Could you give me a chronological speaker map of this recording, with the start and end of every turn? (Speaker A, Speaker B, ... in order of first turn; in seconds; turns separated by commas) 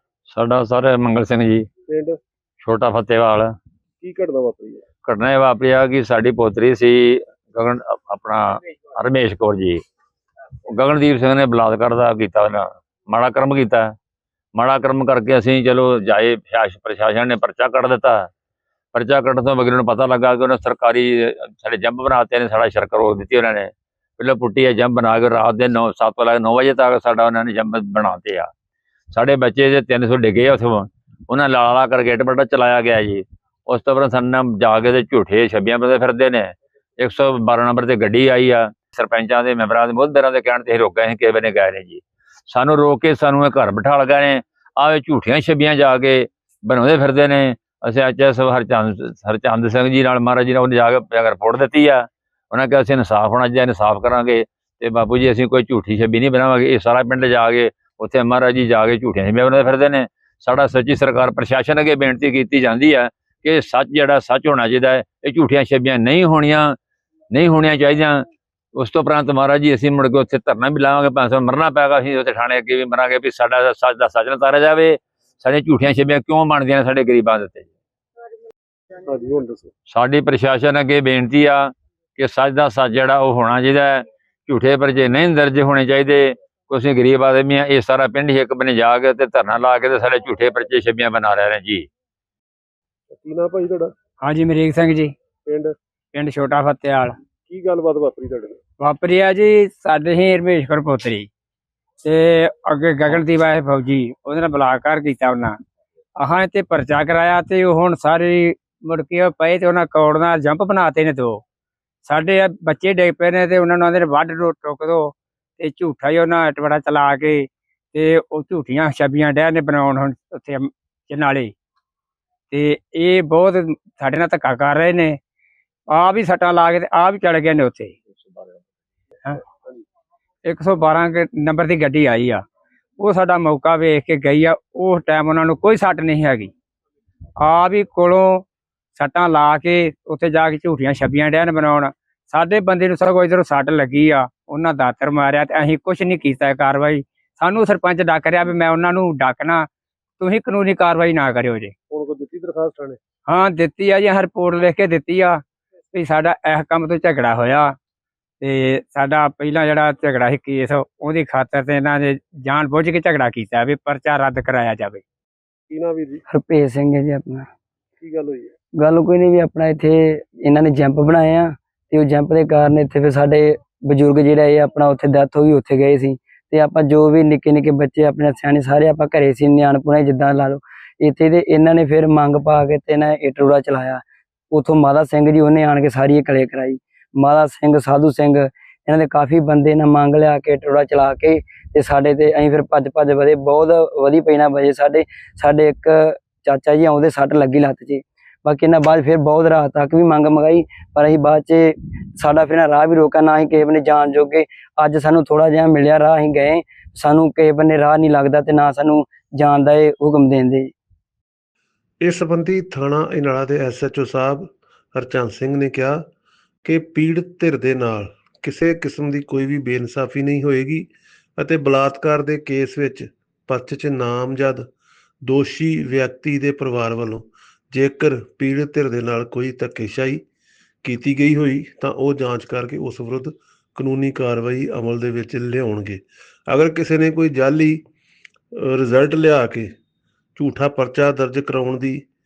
Speaker A: 0.3-1.7, Speaker A: 2.6-3.5, Speaker B: 4.0-4.3, Speaker C: 4.1-4.8, Speaker A: 5.0-9.8, Speaker A: 10.7-13.9, Speaker A: 14.6-18.3, Speaker A: 18.9-28.5, Speaker A: 29.1-66.8, Speaker A: 67.3-77.7, Speaker B: 79.1-79.7, Speaker A: 79.9-91.9, Speaker B: 93.1-93.9, Speaker C: 93.5-93.9, Speaker D: 94.2-95.1, Speaker C: 95.5-95.7, Speaker D: 96.1-97.2, Speaker C: 97.5-98.6, Speaker B: 97.5-98.5, Speaker D: 98.8-101.3, Speaker D: 102.0-105.6, Speaker D: 106.2-111.4, Speaker D: 112.0-121.5, Speaker D: 122.5-125.2, Speaker D: 125.9-128.0, Speaker D: 130.4-132.4, Speaker D: 133.0-136.5, Speaker D: 137.4-149.7, Speaker D: 150.2-151.8, Speaker B: 151.9-153.0, Speaker C: 152.1-152.9, Speaker D: 153.3-155.4, Speaker D: 155.9-157.7, Speaker D: 158.4-165.0, Speaker B: 165.7-166.2, Speaker C: 165.8-166.2, Speaker E: 166.3-167.5, Speaker B: 168.0-168.5, Speaker C: 168.0-168.5, Speaker E: 168.8-210.7, Speaker C: 212.0-216.1, Speaker C: 216.6-224.7, Speaker C: 225.2-230.2, Speaker C: 230.8-237.8, Speaker C: 238.6-239.7, Speaker C: 240.4-242.1